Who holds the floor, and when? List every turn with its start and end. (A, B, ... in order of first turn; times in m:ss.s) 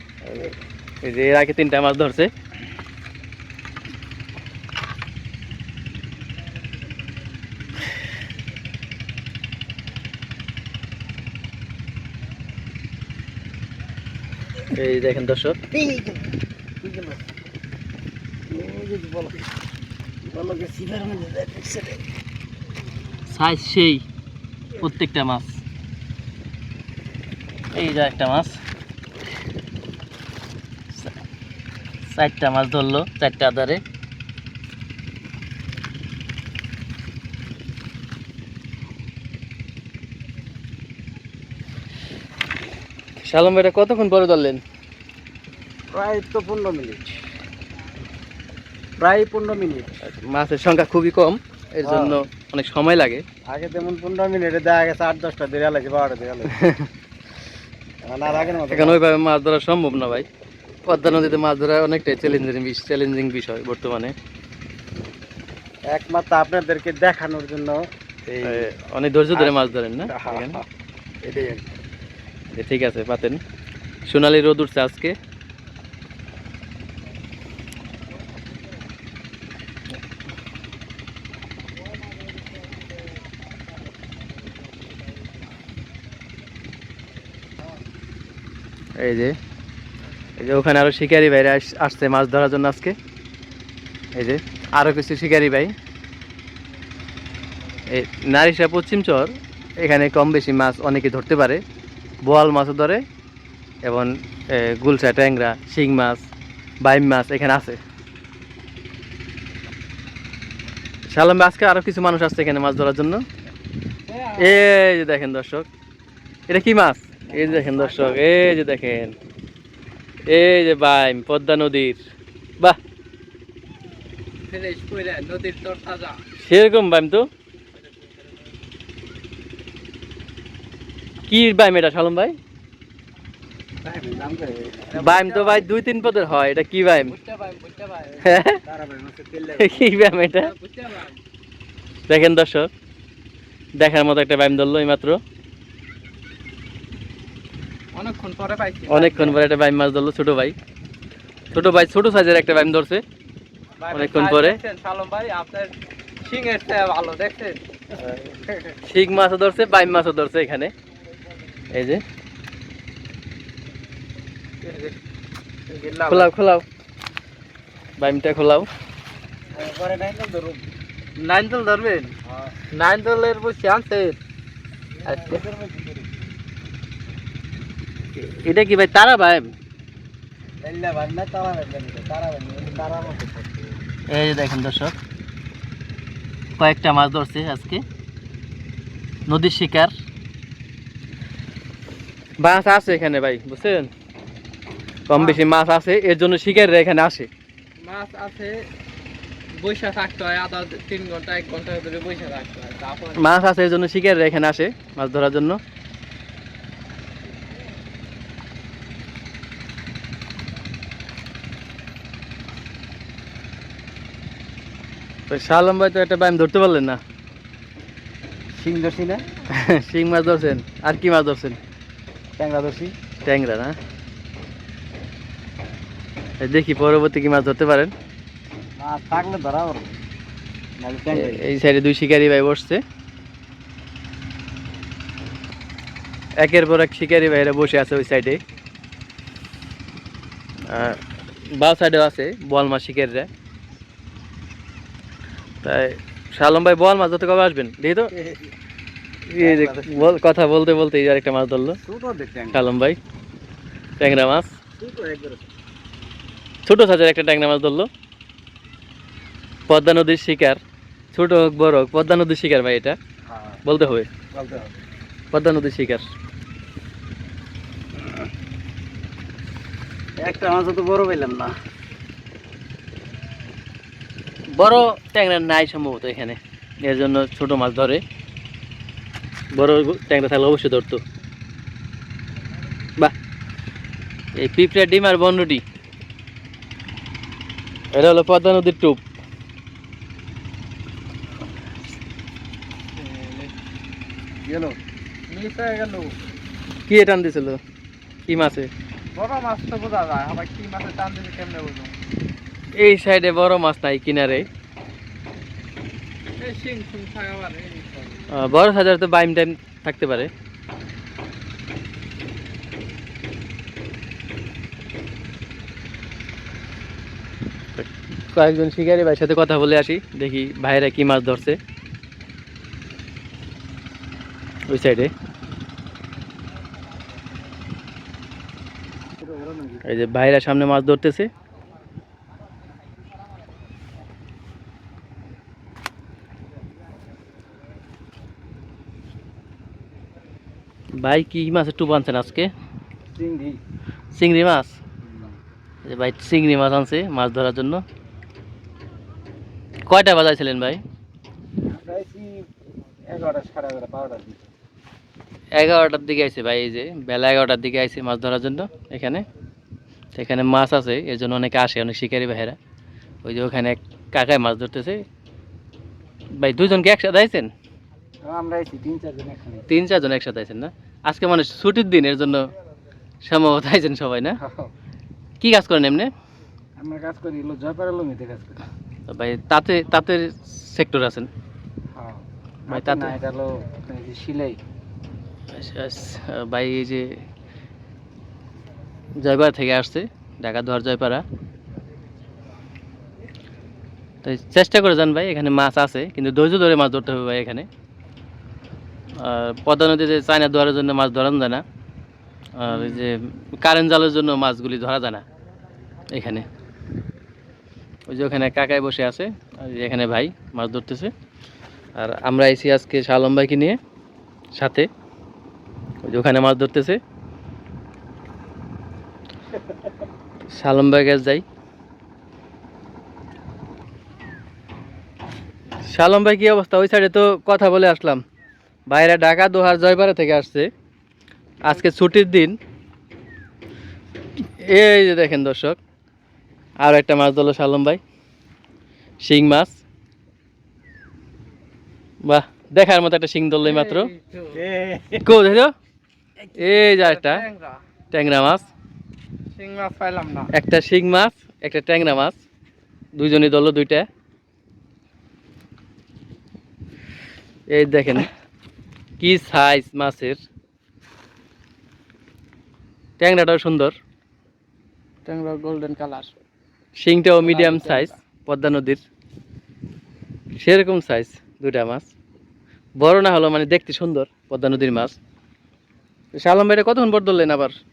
0:00.2-0:02.3 A
0:14.7-0:15.6 A
0:15.7-0:16.3 B
0:16.8-0:17.3 B
0:18.5-0:19.5 B
0:20.2-0:22.0 B
0:23.3-0:24.0 A
0:24.8-0:25.6 A
0:27.7-0:28.6 A
0:32.1-0:33.8 A
0:43.2-0:44.6 A
0:45.9-0:47.0 B
0:49.0-0:50.0 B
0:50.0-0:53.2 A
0:51.8-0:52.2 B
0:53.5-0:56.5 B
0:56.5-0:56.9 A
0:58.0-0:59.1 B
0:58.6-1:00.2 A
1:00.8-1:04.1 A
1:05.9-1:08.7 B
1:08.4-1:10.6 A
1:09.3-1:10.6 B
1:11.2-1:11.7 B
1:12.5-1:13.4 A
1:14.0-1:15.1 A
1:29.0-1:29.3 A
1:30.4-1:32.9 A
1:34.1-1:35.7 A
1:37.9-1:41.6 A
1:42.2-1:43.0 A
1:43.8-1:46.3 A
1:46.8-1:47.8 A
1:51.1-1:53.2 A
1:54.1-1:54.6 C
1:54.4-1:55.7 A
1:56.5-1:59.2 A
1:57.7-1:58.1 C
2:00.3-2:02.0 A
2:04.5-2:06.2 C
2:06.4-2:07.3 A
2:11.3-2:12.4 A
2:13.8-2:14.9 B
2:14.9-2:15.6 C
2:15.0-2:17.1 A
2:17.0-2:18.2 C
2:18.1-2:19.9 B
2:18.2-2:18.6 A
2:19.6-2:20.5 A
2:20.4-2:21.2 C
2:22.1-2:22.7 A
2:23.8-2:25.2 A
2:27.9-2:29.4 C
2:28.9-2:30.5 A
2:31.5-2:33.0 A
2:33.8-2:38.7 C
2:33.9-2:34.6 A
2:38.8-2:40.7 A
2:41.7-2:42.0 A
2:44.6-2:44.9 C
2:45.7-2:46.3 C
2:46.1-2:46.6 A
2:48.0-2:48.7 A
2:49.5-2:50.6 B
2:51.2-2:52.1 C
2:52.2-2:52.5 B
2:52.7-2:54.2 C
2:55.0-2:56.2 B
2:55.0-2:55.4 C
2:58.2-2:59.5 A
3:00.6-3:03.8 B
3:04.1-3:05.0 A
3:06.6-3:07.8 A
3:09.3-3:09.9 A
3:12.4-3:13.9 A
3:15.1-3:17.3 A
3:17.8-3:18.6 C
3:19.5-3:23.2 C
3:23.2-3:25.6 A
3:35.3-3:37.0 A
3:38.5-3:39.2 B
3:39.5-3:41.6 A
3:42.4-3:43.0 B
3:43.2-3:43.8 A
3:46.4-3:47.9 A
3:48.8-3:49.9 B
3:50.8-3:51.4 B
3:51.1-3:52.8 A
3:56.4-3:58.4 A
4:00.7-4:01.0 A
4:01.5-4:03.3 A
4:05.6-4:08.1 A
4:08.1-4:08.5 B
4:09.3-4:11.8 A
4:09.4-4:10.2 B
4:11.8-4:12.6 B
4:12.5-4:13.0 A
4:14.0-4:14.5 A
4:14.8-4:15.5 B
4:16.6-4:17.9 A
4:19.7-4:20.6 A
4:21.1-4:23.0 A
4:23.2-4:23.6 B
4:23.6-4:24.1 A
4:24.3-4:24.7 B
4:25.3-4:26.1 A
4:30.2-4:31.5 B
4:34.5-4:38.0 A
4:39.5-4:41.0 A
4:44.4-4:45.6 A
4:47.9-4:49.0 A
4:53.0-4:53.5 C
4:54.4-4:54.8 B
4:55.3-4:56.2 C
4:56.9-4:57.6 A
4:58.3-4:58.7 A
4:59.1-5:01.9 C
5:02.8-5:04.5 A
5:06.4-5:08.2 C
5:08.3-5:10.3 A
5:17.8-5:21.6 A
5:24.7-5:25.1 A
5:29.2-5:29.8 B
5:29.8-5:31.3 A
5:41.0-5:42.5 A
5:43.1-5:43.6 B
5:44.1-5:44.8 A
5:45.0-5:45.4 B
5:45.8-5:47.8 A
5:49.9-5:50.8 A
5:51.7-5:52.5 B
5:53.1-5:54.4 B
5:55.5-5:59.2 A
6:00.1-6:02.6 A
6:03.2-6:05.0 A
6:06.4-6:07.5 A
6:08.2-6:09.6 B
6:09.7-6:12.5 A
6:13.2-6:14.4 A
6:14.4-6:14.7 B
6:15.4-6:16.1 A
6:16.8-6:18.6 B
6:19.1-6:21.3 A
6:21.9-6:24.6 B
6:22.7-6:23.1 A
6:25.5-6:27.2 A
6:29.2-6:31.2 A
6:34.2-6:37.7 A
6:39.2-6:41.6 A
6:42.6-6:45.2 A
6:46.1-6:46.4 A
6:48.1-6:51.1 A
6:52.0-6:53.8 A
6:54.6-6:54.9 A
6:56.0-6:57.0 A
7:00.5-7:01.4 A
7:05.9-7:08.2 A
7:08.9-7:10.7 A
7:11.6-7:12.6 A
7:14.4-7:15.8 A
7:16.8-7:18.0 A
7:19.2-7:19.8 A
7:22.2-7:24.1 A
7:23.6-7:24.6 C
7:24.5-7:25.3 B
7:25.2-7:25.7 A
7:26.4-7:27.8 C
7:26.6-7:27.4 A
7:28.1-7:28.7 A
7:29.5-7:30.5 C
7:30.5-7:32.4 A
7:33.2-7:34.0 A
7:37.7-7:38.3 A
7:39.2-7:40.4 A
7:43.2-7:43.9 A
7:45.2-7:46.3 C
7:47.0-7:49.0 A
7:47.4-7:48.1 C
7:50.6-7:52.1 A
7:53.0-7:55.2 A
7:56.3-7:57.7 A